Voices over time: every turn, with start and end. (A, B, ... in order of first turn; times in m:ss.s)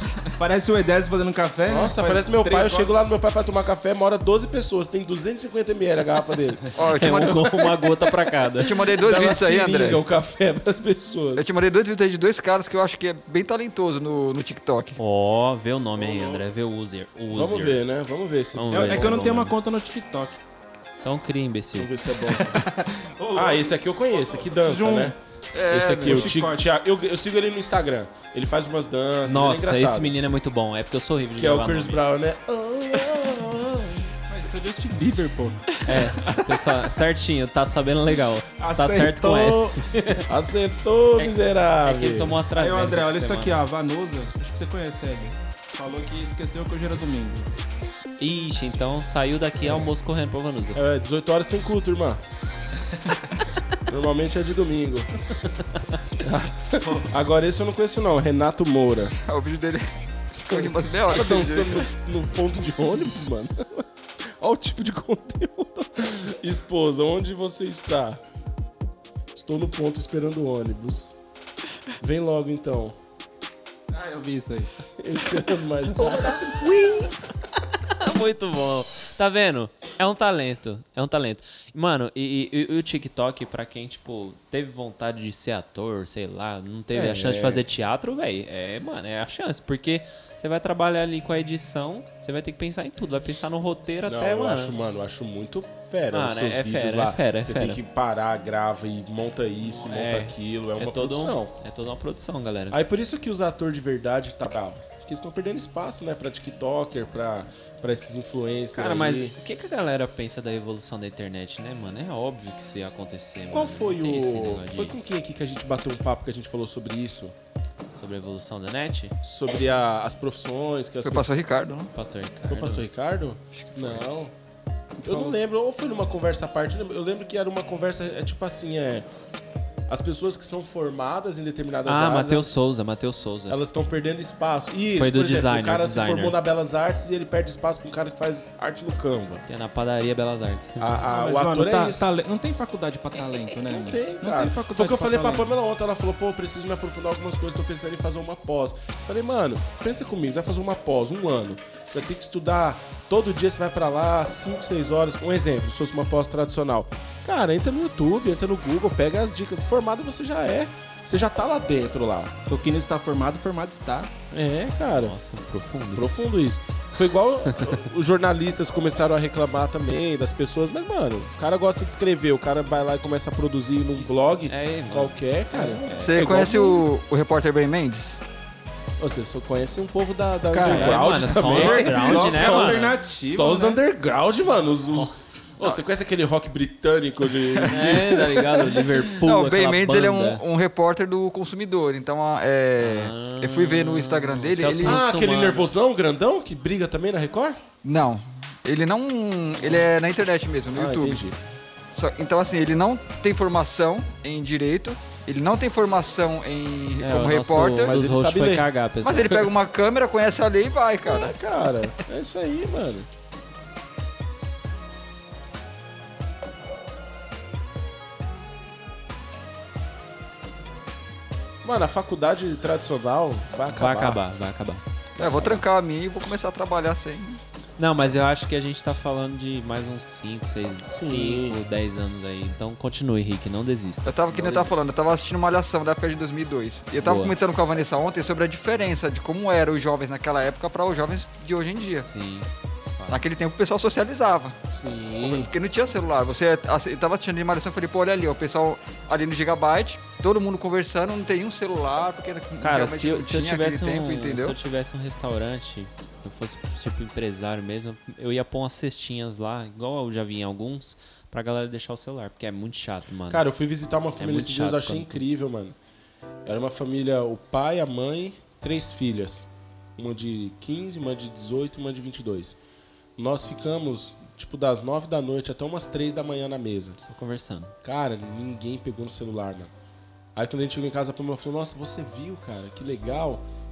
0:00.4-0:02.9 A
0:01.7-0:07.3 B
0:06.7-0:07.7 C
0:06.9-0:09.0 D
0:08.6-0:10.0 C
0:08.9-0:11.5 B
0:11.4-0:15.0 C
0:15.0-0:17.8 D
0:16.0-0:16.4 A
0:17.3-0:19.3 B
0:18.5-0:19.6 D
0:18.7-0:20.4 A
0:21.0-0:21.9 D
0:21.8-0:22.6 B
0:22.2-0:25.2 A
0:23.3-0:25.2 B
0:25.5-0:26.2 C
0:25.7-0:26.3 D
0:25.8-0:30.2 B
0:26.0-0:26.7 A
0:29.2-0:32.0 D
0:31.4-0:34.1 B
0:34.3-0:36.4 A
0:35.8-0:40.3 D
0:38.6-0:39.8 A
0:40.3-0:42.4 B
0:41.2-0:43.6 D
0:42.6-0:47.5 A
0:48.2-0:50.8 D
0:50.7-0:52.2 B
0:53.9-0:55.1 B
0:56.2-0:59.2 B
0:56.8-0:57.1 A
0:59.2-1:01.9 C
1:00.5-1:08.2 B
1:09.3-1:11.2 B
1:12.0-1:13.0 B
1:13.9-1:14.7 A
1:15.0-1:17.1 B
1:16.0-1:16.6 A
1:17.9-1:34.7 D
1:26.9-1:27.7 B
1:34.0-1:41.5 B
1:36.1-1:37.8 D
1:39.9-1:42.8 D
1:42.7-1:49.4 B
1:48.8-1:55.0 D
1:53.5-1:57.4 B
1:57.9-1:59.2 D
1:59.2-2:01.3 B
2:01.0-2:01.9 C
2:01.9-2:02.8 D
2:02.5-2:04.3 B
2:03.5-2:04.1 C
2:05.0-2:05.3 A
2:05.0-2:09.1 B
2:09.9-2:12.5 B
2:11.9-2:13.6 D
2:13.5-2:19.4 B
2:15.0-2:16.4 D
2:19.5-2:20.9 D
2:20.8-2:22.1 B
2:21.1-2:25.5 A
2:23.6-2:42.3 B
2:42.5-2:44.1 A
2:44.3-2:45.2 B
2:45.0-2:46.1 D
2:45.9-2:56.9 B
2:54.0-2:56.4 D
2:56.0-2:58.2 C
2:59.0-3:08.9 B
3:00.5-3:03.8 A
3:00.6-3:03.0 D
3:07.7-3:10.4 D
3:09.2-3:15.0 C
3:12.8-3:15.7 D
3:14.8-3:17.6 B
3:17.8-3:21.2 C
3:20.7-3:21.4 B
3:21.9-3:27.9 C
3:27.0-3:29.5 D
3:27.8-3:28.7 B
3:29.0-3:31.4 C
3:31.0-3:33.1 B
3:41.6-3:44.2 B
3:43.7-3:44.8 D
3:45.2-3:47.4 C
3:45.2-3:45.6 B
3:47.8-3:54.8 D
3:50.9-3:51.6 B
3:54.0-4:02.1 C
3:57.0-3:57.3 D
4:02.1-4:03.2 D
4:03.1-4:04.6 C
4:04.7-4:05.5 B
4:05.2-4:14.6 C
4:12.6-4:23.4 D
4:23.3-4:25.8 B
4:24.2-4:25.2 D
4:26.4-4:32.6 B
4:33.2-4:37.0 B
4:37.0-4:37.7 D
4:37.8-4:39.7 B
4:40.4-4:43.4 B